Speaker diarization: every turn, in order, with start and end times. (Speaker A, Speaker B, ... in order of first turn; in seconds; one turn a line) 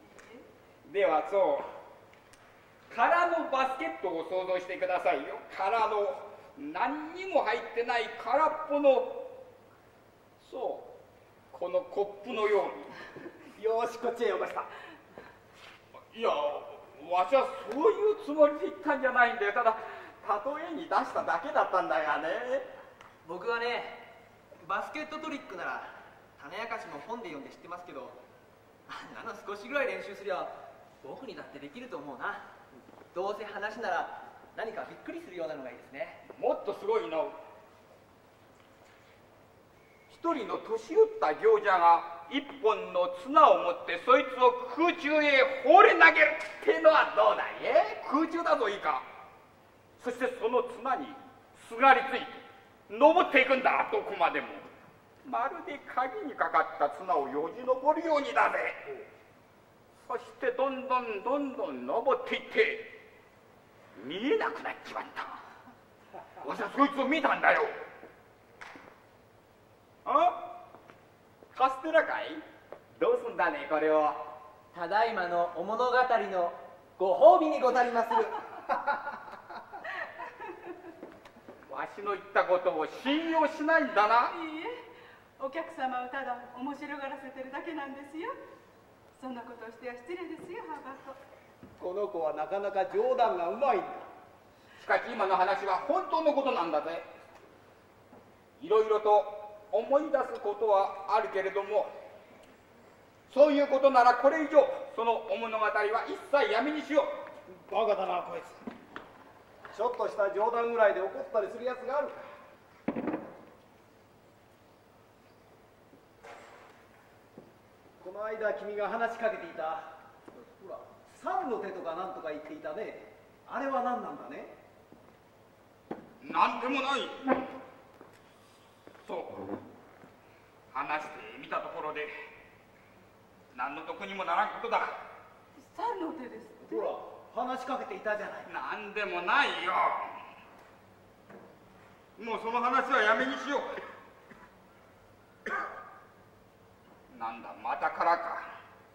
Speaker A: 0.8-1.7
Speaker A: 2.9-9.2
Speaker A: 10.4-10.9
Speaker A: 11.5-13.0
Speaker B: 13.5-14.7
Speaker A: 16.1-22.7
Speaker C: 23.2-28.2
Speaker C: 28.9-32.5
Speaker C: 33.1-36.2
Speaker A: 36.3-37.4
Speaker A: 40.1-49.0
Speaker A: 50.0-54.7
Speaker A: 55.2-59.0
Speaker A: 60.0-62.9
Speaker A: 64.0-65.4
Speaker A: 66.4-67.7
Speaker A: 70.0-70.4
Speaker A: 71.5-72.4
Speaker A: 73.0-74.2
Speaker C: 74.7-78.6
Speaker D: 80.4-80.7
Speaker A: 81.7-84.3
Speaker D: 84.3-84.8
Speaker D: 85.4-88.3
Speaker D: 89.2-91.2
Speaker B: 91.8-94.1
Speaker A: 94.8-97.0
Speaker A: 98.6-101.9
Speaker A: 103.3-107.1
Speaker B: 107.5-108.6
Speaker B: 109.7-112.2
Speaker B: 118.0-124.6
Speaker A: 126.2-127.3
Speaker A: 129.0-129.5
Speaker A: 130.7-132.1
Speaker A: 133.5-134.9
Speaker D: 135.6-136.9
Speaker B: 136.6-138.5
Speaker A: 138.5-140.2
Speaker A: 142.2-143.8
Speaker A: 147.1-148.4